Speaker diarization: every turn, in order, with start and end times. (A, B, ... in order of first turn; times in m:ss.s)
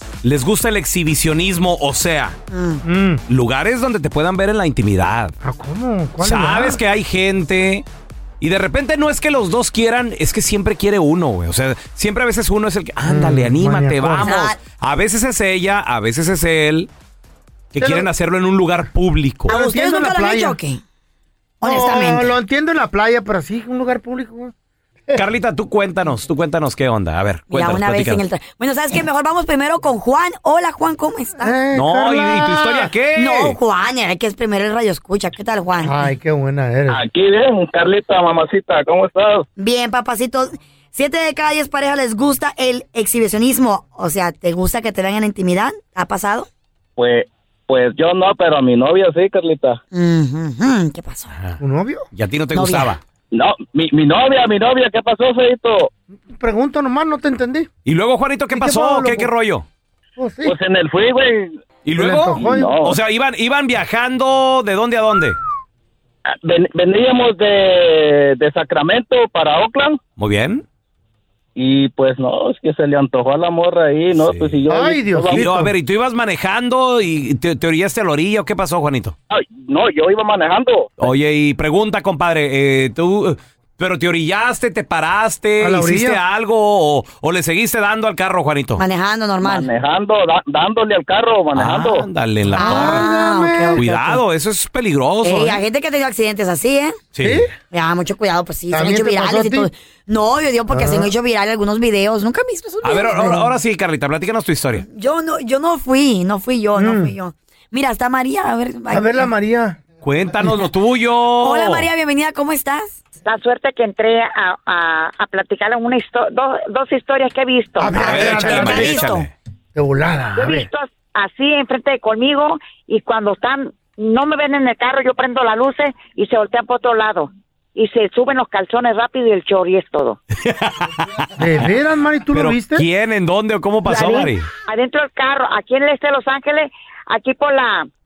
0:00.2-0:02.4 A
0:02.5-0:02.8 B
0:02.8-0:03.2 C
0:03.3-0:05.3 A
0:05.4-0:06.8 C
0:06.2-0:07.8 A
0:08.4-0:16.9 A
0:13.0-0:14.4 C
0:14.2-0:14.6 B
0:17.7-0:19.5 A
0:17.8-0:18.1 C
0:19.5-0:20.6 C
0:19.5-0:20.8 B
0:21.6-0:24.5 C
0:21.6-0:22.3 B
0:25.1-0:28.2 A
0:27.5-0:31.6 B
0:31.4-0:32.9 C
0:31.7-0:33.6 A
0:33.2-0:36.0 B
0:35.8-0:37.0 C
0:36.9-0:39.5 D
0:39.6-0:46.5 B
0:47.0-0:49.8 D
0:49.9-0:51.3 B
0:51.6-0:52.1 C
0:52.1-0:53.0 A
0:52.5-0:53.0 B
0:53.3-0:55.9 D
0:56.3-0:57.7 C
0:57.8-0:59.7 A
0:58.5-0:59.3 C
1:00.2-1:00.6 C
1:00.4-1:01.6 D
1:01.8-1:05.4 A
1:01.9-1:02.8 C
1:02.4-1:03.0 D
1:06.3-1:10.0 D
1:10.2-1:10.6 A
1:11.6-1:15.4 D
1:14.1-1:14.6 A
1:14.7-1:15.7 C
1:15.3-1:19.2 A
1:19.3-1:20.9 D
1:21.0-1:28.8 A
1:25.6-1:26.2 C
1:28.8-1:29.7 B
1:29.4-1:32.1 D
1:31.6-1:33.1 A
1:32.5-1:34.0 C
1:32.5-1:34.2 B
1:33.8-1:35.6 A
1:35.2-1:37.0 B
1:37.1-1:37.5 A
1:37.2-1:37.5 C
1:37.7-1:43.4 B
1:38.7-1:39.7 C
1:40.7-1:41.1 C
1:42.8-1:44.8 A
1:44.8-1:49.2 B
1:46.8-1:47.1 C
1:48.9-1:49.8 C
1:50.0-1:51.9 A
1:51.4-1:53.0 B
1:53.2-1:58.0 E
1:57.8-1:59.1 C
1:57.9-1:59.3 A
1:57.9-1:59.3 B
1:59.8-2:00.7 C
2:00.4-2:10.2 E
2:10.4-2:10.9 A
2:11.4-2:12.8 C
2:12.3-2:14.5 A
2:13.9-2:17.9 E